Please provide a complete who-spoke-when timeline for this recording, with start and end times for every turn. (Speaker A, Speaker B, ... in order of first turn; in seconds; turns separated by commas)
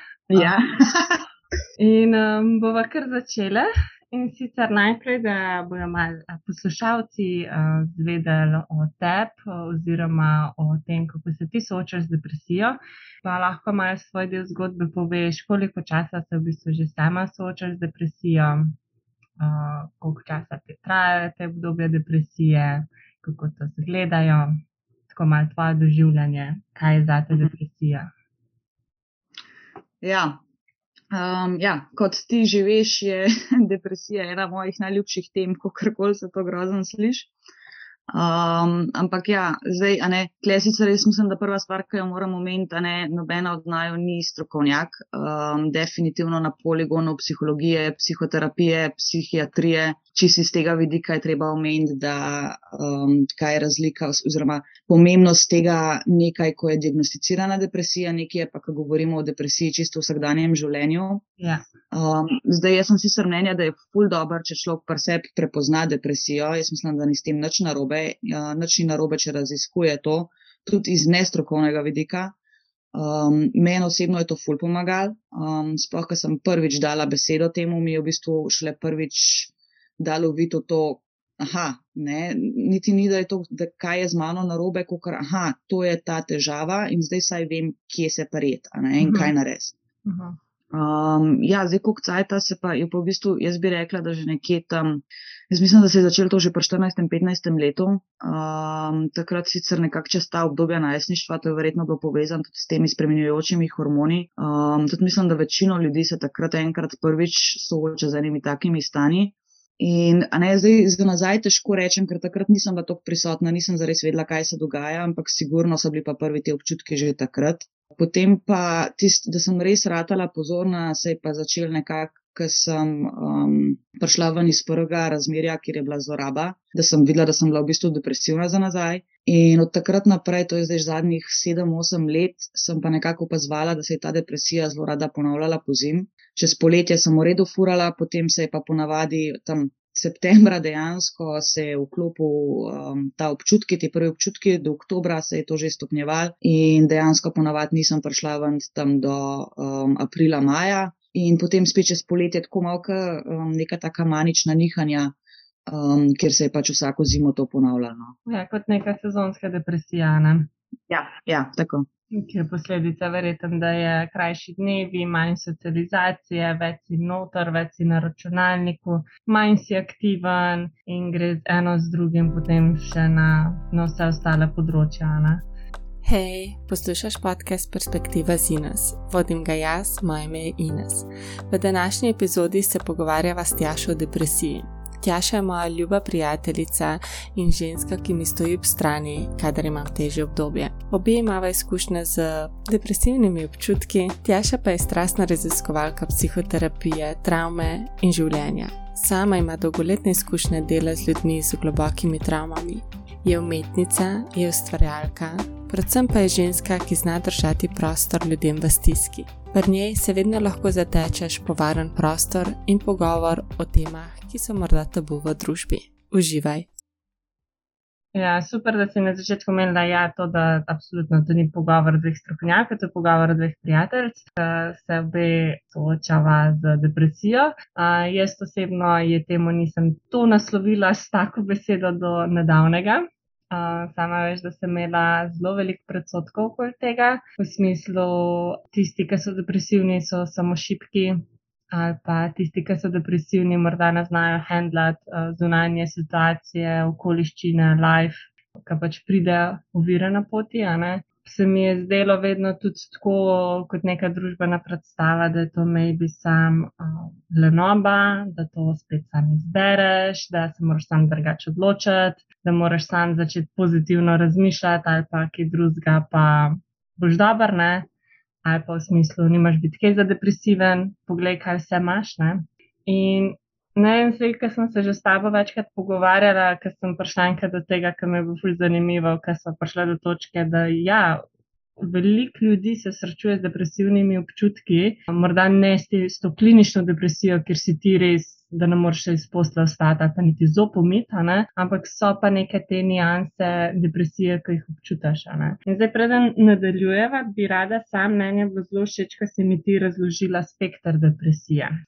Speaker A: 0.3-1.2, Speaker B: 1.8-18.8, Speaker B: 19.4-28.1, Speaker A: 30.0-30.4, Speaker A: 31.1-37.3, Speaker A: 38.1-61.2, Speaker B: 61.4-61.6, Speaker A: 61.9-72.3, Speaker A: 72.9-89.8, Speaker B: 89.0-89.3, Speaker B: 90.0-90.4, Speaker A: 90.7-155.2, Speaker A: 155.7-158.1, Speaker B: 158.2-160.5, Speaker A: 160.9-161.9, Speaker B: 162.1-175.4, Speaker C: 176.0-216.7, Speaker B: 218.1-267.9, Speaker B: 268.4-281.2, Speaker B: 281.8-301.8